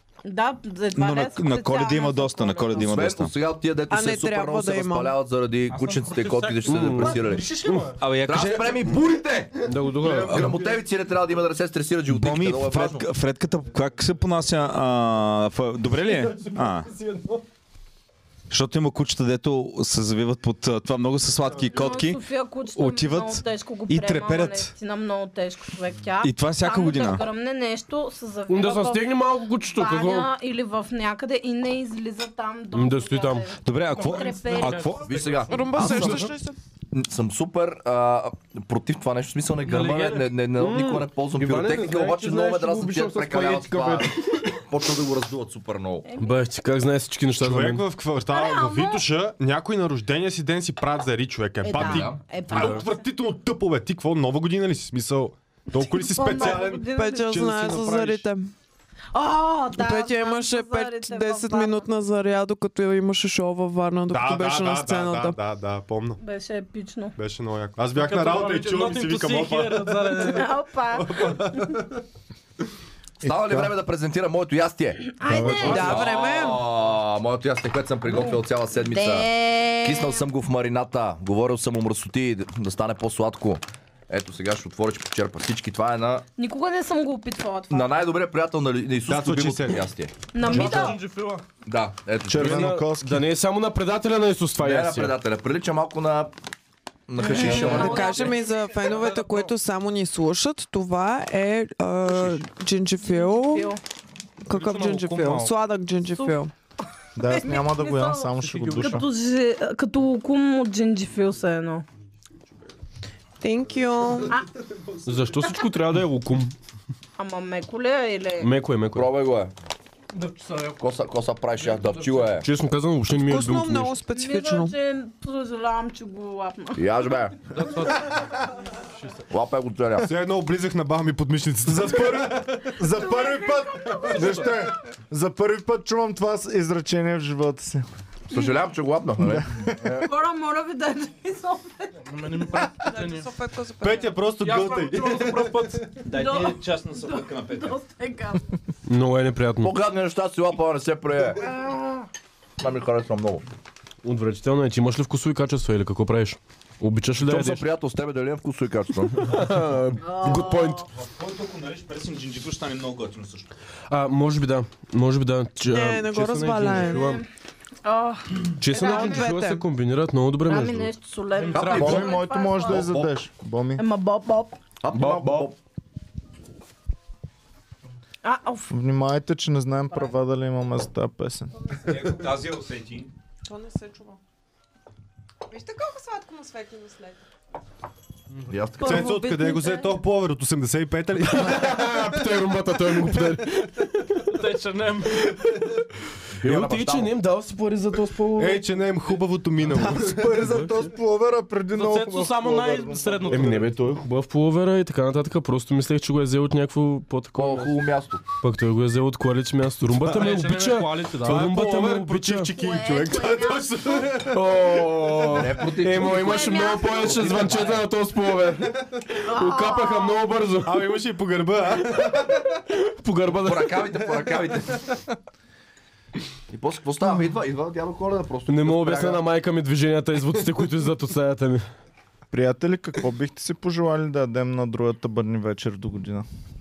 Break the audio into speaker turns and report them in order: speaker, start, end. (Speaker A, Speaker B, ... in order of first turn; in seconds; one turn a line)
Speaker A: 0.2-3.0
Speaker B: 0.9-3.3
Speaker C: 2.8-7.5
Speaker D: 3.9-5.2
Speaker E: 5.7-8.1
Speaker F: 6.6-7.9
Speaker B: 8.0-9.1
Speaker C: 8.2-13.1
Speaker F: 9.7-10.6
Speaker G: 10.0-10.3
Speaker B: 10.3-10.6
Speaker E: 10.5-10.8
Speaker B: 12.1-16.9
Speaker E: 15.9-17.4
Speaker B: 18.5-24.7
Speaker A: 21.7-29.1
Speaker B: 26.2-27.2
Speaker F: 28.5-30.3
Speaker A: 29.7-35.0
Speaker F: 32.7-33.5
Speaker B: 33.6-35.4
Speaker E: 33.9-35.6
Speaker C: 35.0-36.3
Speaker D: 35.4-36.5
Speaker C: 36.9-46.0
Speaker E: 39.6-40.4
Speaker F: 40.5-44.2
Speaker A: 46.0-46.4
Speaker F: 46.2-47.8
Speaker G: 47.4-58.2
Speaker A: 48.3-49.0
Speaker A: 51.6-53.0
Speaker C: 51.7-52.2
Speaker A: 55.9-57.4
Speaker D: 56.3-58.5
Speaker A: 59.1-61.9
Speaker D: 59.7-65.4
Speaker G: 64.1-66.2
Speaker A: 66.2-67.1
Speaker G: 67.2-70.3
Speaker E: 67.9-70.5
Speaker A: 70.2-71.8
Speaker G: 70.9-71.9
Speaker H: 73.2-73.8
Speaker C: 73.2-86.2
Speaker A: 75.2-76.2
Speaker H: 75.2-75.9
Speaker D: 75.4-76.7
Speaker A: 78.1-80.2
Speaker A: 86.4-87.9
Speaker C: 87.7-90.9
Speaker G: 89.1-89.9
Speaker A: 90.3-91.0
Speaker E: 90.4-91.5
Speaker C: 91.6-92.8
Speaker H: 92.3-93.3
Speaker F: 92.3-95.1
Speaker C: 94.6-96.3
Speaker C: 97.1-98.3
Speaker A: 97.2-98.4
Speaker D: 97.4-103.8
Speaker E: 97.6-99.5
Speaker A: 103.0-103.8
Speaker D: 104.4-106.5
Speaker E: 104.5-105.5
Speaker H: 107.2-109.1
Speaker A: 107.2-111.8
Speaker E: 108.4-109.0
Speaker D: 113.4-114.4
Speaker F: 115.0-116.5
Speaker A: 117.2-118.5
Speaker F: 118.4-119.1
Speaker C: 118.9-119.5
Speaker E: 120.1-120.9
Speaker C: 120.8-122.5
Speaker E: 121.5-122.4
Speaker F: 122.4-124.0
Speaker D: 123.1-124.7
Speaker A: 124.1-126.8
Speaker C: 126.8-127.4
Speaker E: 127.5-128.2
Speaker E: 128.8-129.2
Speaker C: 129.3-130.1
Speaker G: 130.0-132.8
Speaker H: 132.7-137.9
Speaker A: 132.9-134.4
Speaker E: 134.2-134.5
Speaker C: 138.3-139.7
Speaker A: 138.3-138.6
Speaker H: 139.2-140.0
Speaker A: 139.9-142.8
Speaker E: 142.0-143.3
Speaker D: 142.8-144.2
Speaker G: 143.8-145.9
Speaker E: 144.4-145.9
Speaker B: 146.0-147.8
Speaker A: 146.1-148.5
Speaker F: 148.9-149.8
Speaker C: 149.6-151.4
Speaker A: 151.4-152.1
Speaker C: 152.6-153.4
Speaker F: 154.0-157.7
Speaker C: 157.2-159.5
Speaker F: 159.2-160.8
Speaker A: 160.0-160.8
Speaker B: 160.9-163.5
Speaker F: 163.9-167.2
Speaker D: 165.6-167.2
Speaker A: 166.8-167.2
Speaker A: 167.8-169.3
Speaker F: 168.6-170.9
Speaker D: 168.7-169.6
Speaker A: 170.5-172.9
Speaker E: 171.3-172.1
Speaker C: 171.5-173.1
Speaker H: 171.7-173.8
Speaker A: 173.8-174.6
Speaker C: 174.8-175.6
Speaker F: 174.9-175.5
Speaker A: 178.2-178.7
Speaker H: 178.7-181.5
Speaker B: 181.8-183.1
Speaker D: 183.4-184.2
Speaker D: 185.5-187.2
Speaker E: 188.3-188.6
Speaker C: 188.5-189.2
Speaker A: 188.8-190.0
Speaker G: 188.8-192.2
Speaker F: 191.2-194.3
Speaker E: 194.2-195.4
Speaker C: 196.4-197.1
Speaker F: 196.4-198.7
Speaker G: 198.3-200.5
Speaker H: 199.6-203.7
Speaker E: 201.7-203.7
Speaker F: 203.3-207.8
Speaker C: 207.3-208.2
Speaker F: 208.4-212.5
Speaker G: 210.0-210.4
Speaker E: 210.1-211.5
Speaker G: 211.2-215.0
Speaker A: 212.5-214.2
Speaker F: 214.2-221.0
Speaker C: 215.2-217.9
Speaker A: 216.0-217.5
Speaker A: 219.2-220.2
Speaker G: 220.6-222.4
Speaker F: 222.7-224.3
Speaker C: 223.3-224.9
Speaker C: 226.5-229.2
Speaker F: 228.5-231.7
Speaker H: 232.3-236.3